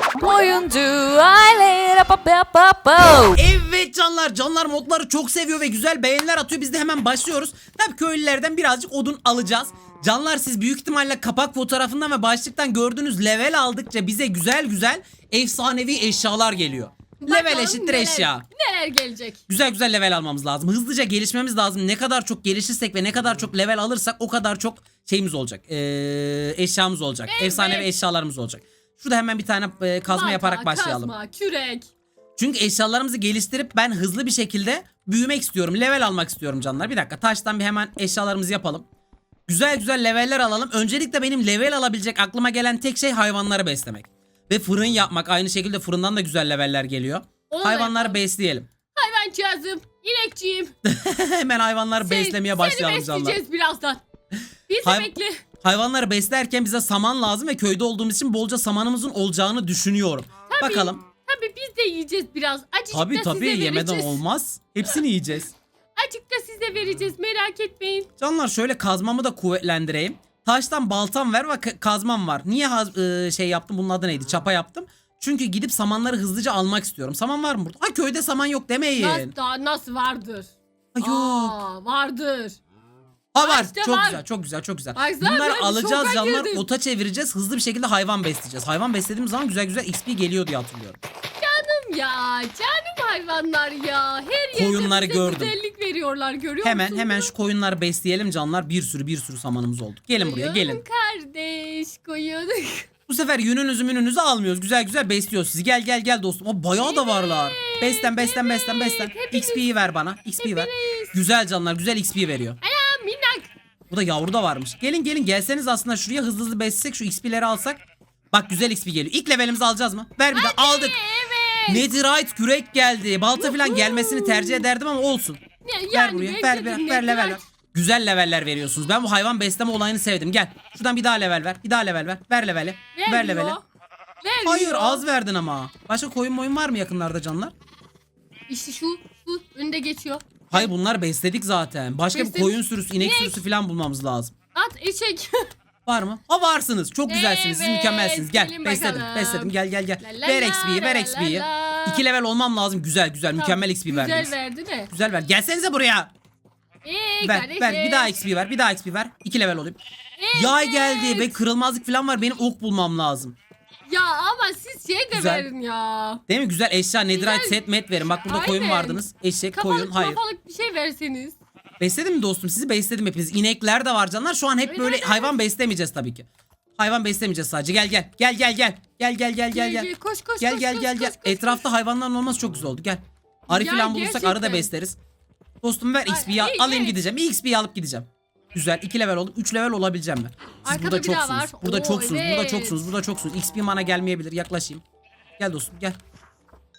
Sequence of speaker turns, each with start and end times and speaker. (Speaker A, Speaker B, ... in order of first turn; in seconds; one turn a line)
Speaker A: 0.2-3.4
Speaker B: 3.3-18.4
Speaker C: 17.2-19.4
Speaker B: 19.5-31.1
Speaker C: 27.3-27.9
Speaker C: 30.1-31.9
Speaker B: 32.4-38.8
Speaker B: 39.5-48.7
Speaker C: 47.5-48.2
Speaker C: 48.9-50.7
Speaker B: 50.8-53.4
Speaker C: 52.0-54.0
Speaker C: 54.7-55.4
Speaker B: 54.8-55.1
Speaker B: 55.6-61.0
Speaker C: 60.5-64.2
Speaker B: 62.9-65.5
Speaker C: 66.0-68.1
Speaker B: 68.2-79.3
Speaker C: 79.0-82.6
Speaker B: 80.9-81.6
Speaker B: 83.3-91.0
Speaker C: 83.4-84.2
Speaker C: 84.9-86.7
Speaker C: 91.4-97.3
Speaker B: 94.5-95.5
Speaker B: 96.6-100.8
Speaker C: 100.2-102.9
Speaker B: 103.1-112.6
Speaker C: 106.7-109.7
Speaker C: 110.4-111.2
Speaker C: 112.6-113.5
Speaker B: 113.9-121.0
Speaker C: 120.3-121.9
Speaker B: 121.7-133.6
Speaker C: 123.3-124.6
Speaker C: 125.6-127.4
Speaker C: 132.9-133.6
Speaker C: 134.2-135.0
Speaker B: 134.4-137.5
Speaker C: 138.5-140.7
Speaker B: 140.5-144.3
Speaker C: 142.1-143.4
Speaker C: 144.5-145.4
Speaker B: 145.8-154.3
Speaker C: 147.1-152.0
Speaker C: 153.3-154.9
Speaker B: 154.9-156.1
Speaker C: 156.8-158.1
Speaker B: 157.2-159.8
Speaker C: 160.2-161.4
Speaker B: 160.3-163.3
Speaker C: 163.9-166.2
Speaker B: 165.1-165.5
Speaker B: 166.3-170.2
Speaker C: 167.1-167.6
Speaker C: 168.2-171.4
Speaker B: 171.8-176.3
Speaker C: 174.6-175.4
Speaker B: 176.8-185.0
Speaker C: 179.5-181.7
Speaker C: 183.5-184.7
Speaker B: 185.6-194.8
Speaker C: 186.1-187.0
Speaker C: 190.7-192.9
Speaker B: 195.4-196.0